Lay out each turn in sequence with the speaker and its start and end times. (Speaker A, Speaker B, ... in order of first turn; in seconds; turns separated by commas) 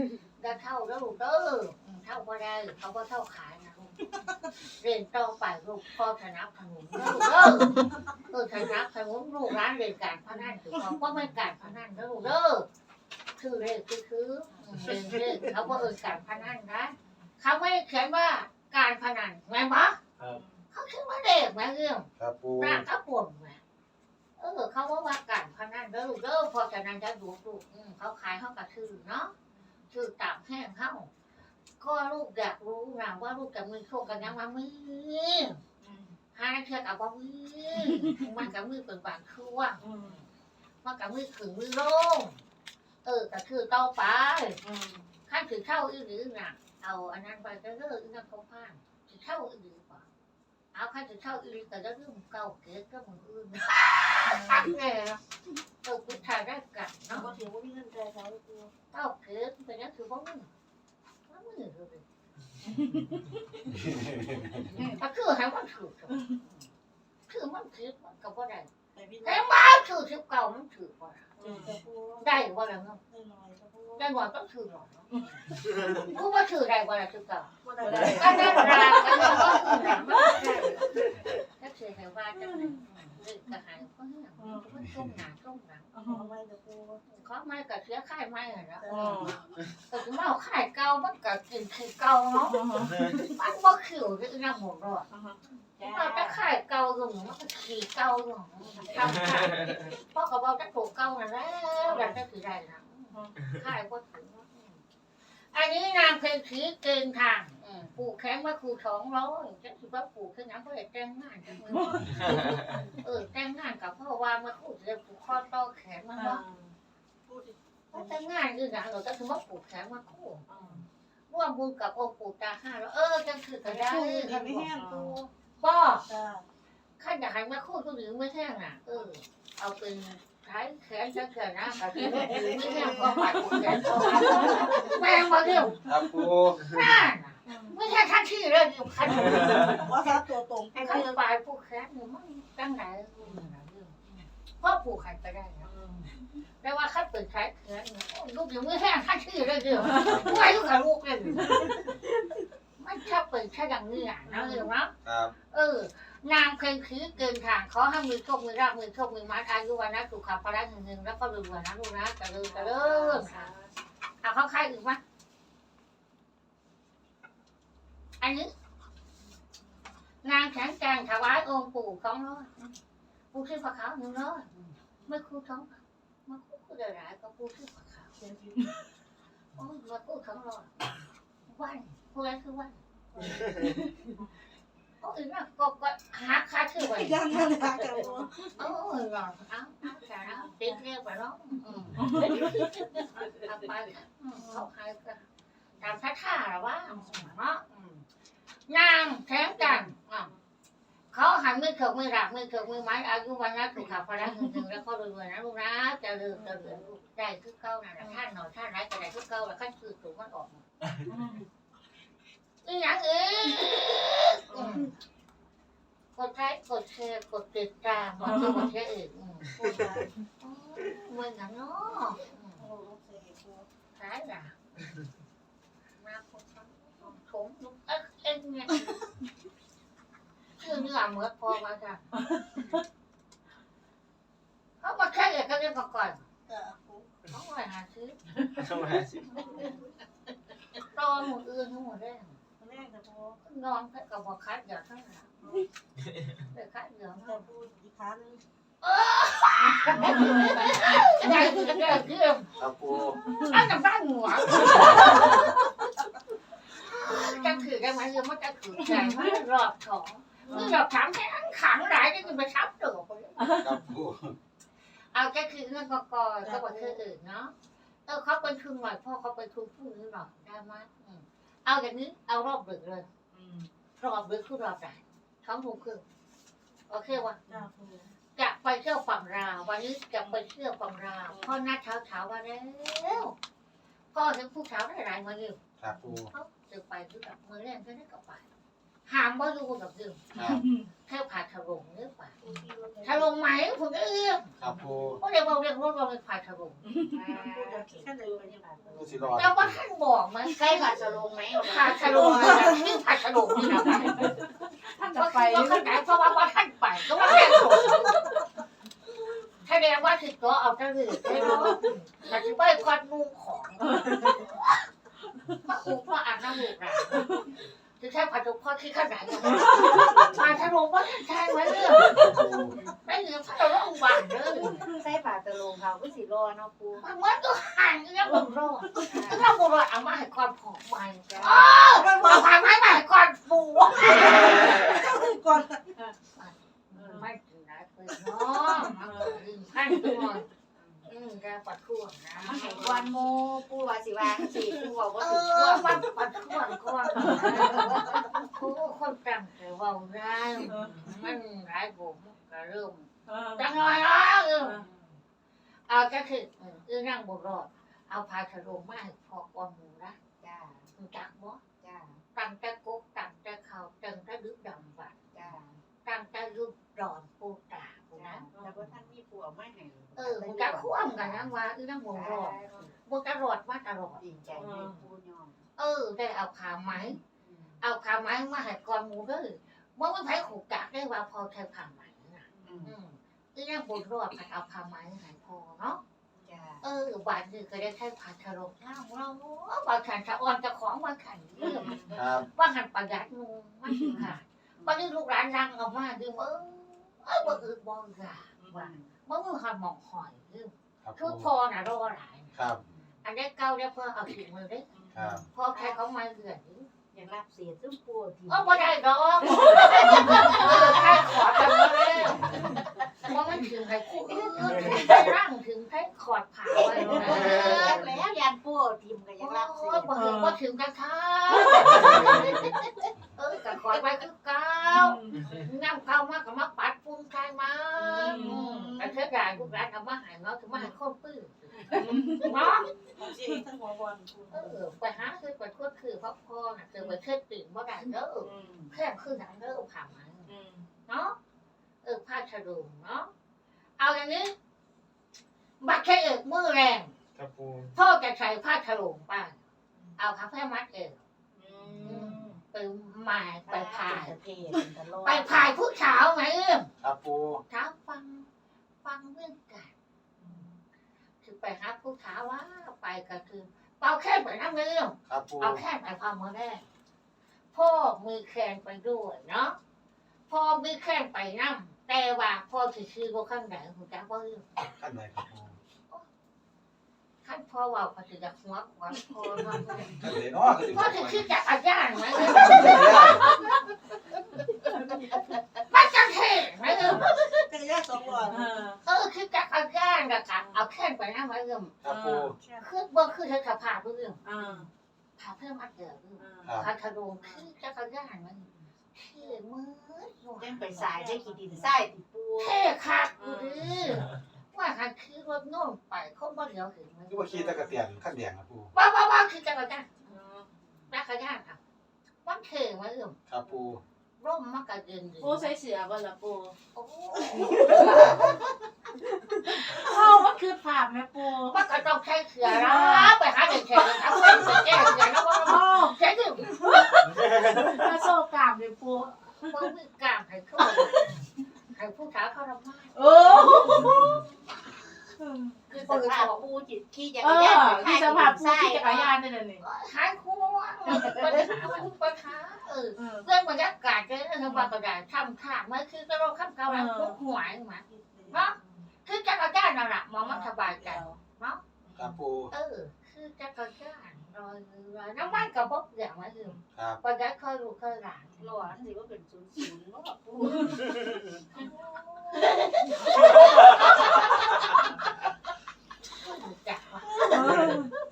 Speaker A: 0.4-4.1, Speaker A: 4.6-12.7, Speaker A: 13.4-20.0, Speaker B: 15.6-15.8, Speaker B: 20.2-20.6, Speaker A: 20.7-23.6, Speaker C: 22.2-22.8, Speaker A: 24.4-29.3, Speaker A: 29.9-31.1, Speaker A: 31.8-35.6, Speaker B: 34.0-34.3, Speaker B: 35.8-36.2, Speaker A: 36.3-40.2, Speaker B: 37.8-38.2, Speaker B: 39.8-40.2, Speaker A: 40.8-42.4, Speaker A: 43.0-44.6, Speaker B: 44.6-45.1, Speaker A: 45.3-50.0, Speaker A: 50.7-55.2, Speaker B: 54.2-54.7, Speaker A: 55.8-57.3, Speaker D: 57.2-58.7, Speaker A: 58.9-60.5, Speaker A: 61.3-62.0, Speaker B: 62.8-63.1, Speaker C: 63.7-64.6, Speaker A: 64.5-66.7, Speaker A: 67.3-68.7, Speaker D: 68.9-69.5, Speaker A: 69.2-71.3, Speaker B: 71.4-71.8, Speaker D: 71.4-72.4, Speaker A: 72.2-73.0, Speaker D: 73.1-74.1, Speaker A: 74.0-75.3, Speaker B: 75.1-75.9, Speaker A: 75.9-81.0, Speaker D: 77.6-79.4, Speaker B: 77.8-79.4, Speaker A: 81.5-85.9, Speaker B: 82.4-82.8, Speaker B: 84.4-84.7, Speaker C: 84.7-85.2, Speaker B: 85.9-86.3, Speaker D: 86.0-87.0, Speaker A: 87.1-89.3, Speaker D: 88.8-89.4, Speaker B: 88.8-89.4, Speaker A: 89.9-95.1, Speaker B: 92.4-93.3, Speaker B: 95.1-95.4, Speaker E: 95.8-96.4, Speaker A: 95.8-104.8, Speaker B: 101.8-102.1, Speaker B: 103.1-103.4, Speaker A: 105.5-116.4, Speaker B: 111.6-112.8, Speaker B: 116.2-116.7, Speaker D: 117.2-118.2, Speaker A: 117.9-120.5, Speaker B: 120.5-120.8, Speaker A: 121.3-126.1, Speaker D: 123.6-125.0, Speaker B: 124.7-125.1, Speaker D: 126.1-126.5, Speaker A: 127.0-135.9, Speaker B: 132.1-134.9, Speaker E: 132.1-132.6, Speaker E: 134.1-134.8, Speaker C: 135.8-136.8, Speaker A: 136.5-139.8, Speaker B: 137.5-137.8, Speaker D: 139.6-141.2, Speaker A: 140.8-145.7, Speaker B: 143.2-143.5, Speaker B: 145.6-146.1, Speaker A: 146.6-151.8, Speaker B: 149.8-150.2, Speaker C: 149.9-150.4, Speaker A: 152.8-163.5, Speaker B: 154.2-154.7, Speaker C: 155.0-155.3, Speaker B: 162.4-163.7, Speaker A: 164.2-165.0, Speaker A: 168.2-168.5, Speaker A: 170.2-172.7, Speaker A: 173.3-174.5, Speaker A: 175.1-178.1, Speaker D: 178.2-178.8, Speaker A: 179.6-182.8, Speaker D: 183.1-183.5, Speaker B: 183.4-184.3, Speaker A: 185.0-187.8, Speaker D: 186.8-188.5, Speaker A: 188.6-195.2, Speaker B: 191.9-192.4, Speaker A: 195.8-198.0, Speaker B: 196.9-197.3, Speaker A: 198.7-200.3, Speaker B: 199.5-200.4, Speaker A: 201.1-210.6, Speaker B: 204.2-204.6, Speaker B: 206.3-206.8, Speaker B: 211.1-211.5, Speaker A: 212.6-214.9, Speaker B: 214.5-214.9, Speaker A: 216.2-219.6, Speaker B: 218.2-218.7, Speaker D: 219.6-220.1, Speaker A: 220.4-222.7, Speaker D: 222.6-223.7, Speaker A: 223.9-224.6, Speaker A: 226.0-228.9, Speaker A: 230.6-232.0, Speaker B: 232.2-232.8, Speaker A: 234.8-236.2, Speaker D: 236.5-237.2, Speaker A: 237.3-238.2, Speaker C: 238.7-239.2, Speaker A: 239.3-239.8, Speaker A: 240.9-242.4, Speaker D: 242.6-243.4, Speaker A: 243.4-245.3, Speaker D: 245.4-245.7, Speaker A: 246.5-247.4, Speaker D: 247.2-248.4, Speaker A: 248.8-252.6, Speaker B: 249.8-251.1, Speaker C: 252.6-253.2, Speaker B: 253.2-253.7, Speaker A: 253.3-255.4, Speaker B: 254.5-255.6, Speaker A: 256.7-263.6, Speaker B: 257.1-257.7, Speaker B: 258.8-259.3, Speaker D: 260.5-260.7, Speaker B: 260.5-260.8, Speaker B: 263.4-263.7, Speaker C: 263.6-264.4, Speaker A: 265.1-267.5, Speaker D: 266.4-267.0, Speaker A: 268.1-273.1, Speaker B: 273.3-273.7, Speaker A: 274.0-276.0, Speaker A: 276.9-277.4, Speaker B: 277.5-277.7, Speaker D: 277.5-278.1, Speaker A: 278.4-283.3, Speaker B: 280.2-280.4, Speaker B: 281.3-281.6, Speaker A: 284.1-285.6, Speaker C: 285.8-286.3, Speaker A: 286.3-288.5, Speaker A: 289.1-290.2, Speaker C: 290.3-290.6, Speaker B: 290.3-290.9, Speaker A: 291.1-292.4, Speaker E: 292.4-293.2, Speaker D: 292.4-293.3, Speaker A: 293.0-294.6, Speaker C: 294.6-295.2, Speaker A: 295.2-296.9, Speaker B: 296.9-297.2, Speaker E: 297.1-299.4, Speaker D: 297.2-299.3, Speaker C: 298.9-299.8, Speaker A: 299.3-301.0, Speaker E: 300.5-302.7, Speaker A: 301.6-304.3, Speaker B: 303.6-306.0, Speaker A: 305.1-308.3, Speaker A: 309.6-314.6, Speaker B: 311.3-311.8, Speaker B: 313.9-314.4, Speaker A: 315.6-317.4, Speaker A: 318.0-322.4, Speaker B: 319.4-320.4, Speaker C: 322.1-322.7, Speaker A: 323.0-324.9, Speaker E: 324.6-327.0, Speaker A: 327.0-335.0, Speaker E: 329.0-329.5, Speaker E: 331.3-331.8, Speaker D: 331.9-332.5, Speaker D: 334.1-335.8, Speaker A: 336.3-340.5, Speaker B: 336.9-337.3, Speaker B: 338.9-339.4, Speaker E: 340.8-341.1, Speaker A: 341.1-342.8, Speaker B: 342.4-343.1, Speaker E: 342.4-346.1, Speaker A: 345.2-355.0, Speaker B: 347.1-347.9, Speaker E: 347.2-347.9, Speaker B: 350.7-351.1, Speaker B: 353.2-353.7, Speaker B: 354.6-354.9, Speaker A: 355.9-360.2, Speaker E: 360.4-360.9, Speaker A: 360.9-361.6, Speaker E: 361.8-362.2, Speaker A: 362.3-365.2, Speaker E: 365.3-365.8, Speaker A: 366.0-368.4, Speaker E: 368.1-371.5, Speaker B: 368.5-368.9, Speaker A: 370.1-374.2, Speaker E: 372.1-372.9, Speaker E: 374.1-375.6, Speaker B: 374.5-375.0, Speaker A: 375.8-377.2, Speaker E: 377.3-377.8, Speaker A: 377.8-386.0, Speaker E: 382.6-382.9, Speaker E: 386.4-386.9, Speaker A: 386.8-402.6, Speaker B: 391.6-392.2, Speaker C: 392.1-392.4, Speaker B: 394.0-394.3, Speaker E: 394.1-395.0, Speaker B: 398.6-398.9, Speaker E: 398.7-399.1, Speaker C: 401.0-401.5, Speaker C: 402.5-402.8, Speaker E: 402.8-403.1, Speaker A: 403.2-404.9, Speaker B: 404.9-405.4, Speaker C: 405.1-405.4, Speaker A: 405.5-406.9, Speaker E: 405.7-406.0, Speaker E: 407.1-412.8, Speaker A: 408.5-418.1, Speaker B: 409.4-411.0, Speaker E: 414.6-415.0, Speaker B: 414.7-415.2, Speaker E: 416.7-420.1, Speaker B: 416.9-417.6, Speaker A: 419.4-422.7, Speaker B: 420.1-420.6, Speaker B: 421.6-422.4, Speaker E: 421.9-422.7, Speaker A: 423.4-432.9, Speaker B: 424.9-425.5, Speaker B: 428.0-429.1, Speaker E: 428.3-428.8, Speaker B: 431.9-432.7, Speaker D: 433.1-434.9, Speaker A: 434.5-440.5, Speaker B: 438.4-438.9, Speaker B: 440.4-440.9, Speaker A: 441.1-441.4, Speaker A: 442.0-443.3, Speaker A: 444.0-444.5, Speaker A: 445.8-447.1, Speaker C: 447.4-447.9, Speaker A: 447.9-449.6, Speaker A: 450.1-451.2, Speaker B: 451.5-452.6, Speaker A: 452.0-454.4, Speaker E: 453.6-455.7, Speaker A: 455.2-456.9, Speaker C: 457.0-457.6, Speaker A: 457.7-458.5, Speaker A: 459.0-459.9, Speaker B: 460.4-460.8, Speaker A: 461.4-466.9, Speaker C: 465.2-465.8, Speaker A: 467.7-469.8, Speaker A: 470.5-474.7, Speaker C: 474.8-475.8, Speaker A: 477.4-480.3, Speaker C: 480.1-481.5, Speaker A: 480.8-483.8, Speaker C: 482.4-483.6, Speaker A: 485.9-487.6, Speaker D: 487.7-488.8, Speaker B: 488.5-489.0, Speaker A: 489.0-491.9, Speaker B: 490.6-490.8, Speaker C: 492.0-492.6, Speaker B: 492.0-492.5, Speaker A: 492.8-494.4, Speaker B: 494.4-494.9, Speaker A: 495.4-501.0, Speaker B: 496.4-496.9, Speaker C: 496.6-496.9, Speaker B: 497.4-497.6, Speaker E: 500.6-502.8, Speaker D: 500.8-502.0, Speaker A: 502.6-507.8, Speaker B: 503.4-503.9, Speaker C: 507.3-508.9, Speaker B: 507.5-508.1, Speaker A: 508.9-510.4, Speaker B: 510.2-510.7, Speaker A: 511.1-511.8, Speaker A: 512.4-513.4, Speaker C: 513.5-514.0, Speaker A: 514.4-515.7, Speaker B: 515.4-516.8, Speaker A: 516.9-518.6, Speaker B: 517.6-518.4, Speaker B: 519.5-521.8, Speaker A: 521.6-526.9, Speaker B: 522.6-524.7, Speaker B: 525.6-526.2, Speaker B: 526.8-529.8, Speaker A: 529.6-531.3, Speaker B: 530.8-531.4, Speaker A: 531.8-534.1, Speaker B: 533.1-534.4, Speaker B: 535.4-535.8, Speaker A: 535.9-536.7, Speaker E: 535.9-539.4, Speaker B: 537.4-539.8, Speaker A: 539.8-551.8, Speaker B: 541.1-541.7, Speaker B: 543.1-543.5, Speaker B: 544.6-544.9, Speaker B: 546.9-547.4, Speaker D: 548.1-548.6, Speaker B: 548.5-549.0, Speaker D: 550.4-551.4, Speaker B: 552.0-552.4, Speaker C: 552.1-552.7, Speaker A: 552.7-558.9, Speaker C: 556.9-557.2, Speaker E: 558.6-561.2, Speaker B: 560.6-561.0, Speaker A: 561.7-565.0, Speaker A: 566.3-568.0, Speaker B: 567.5-568.1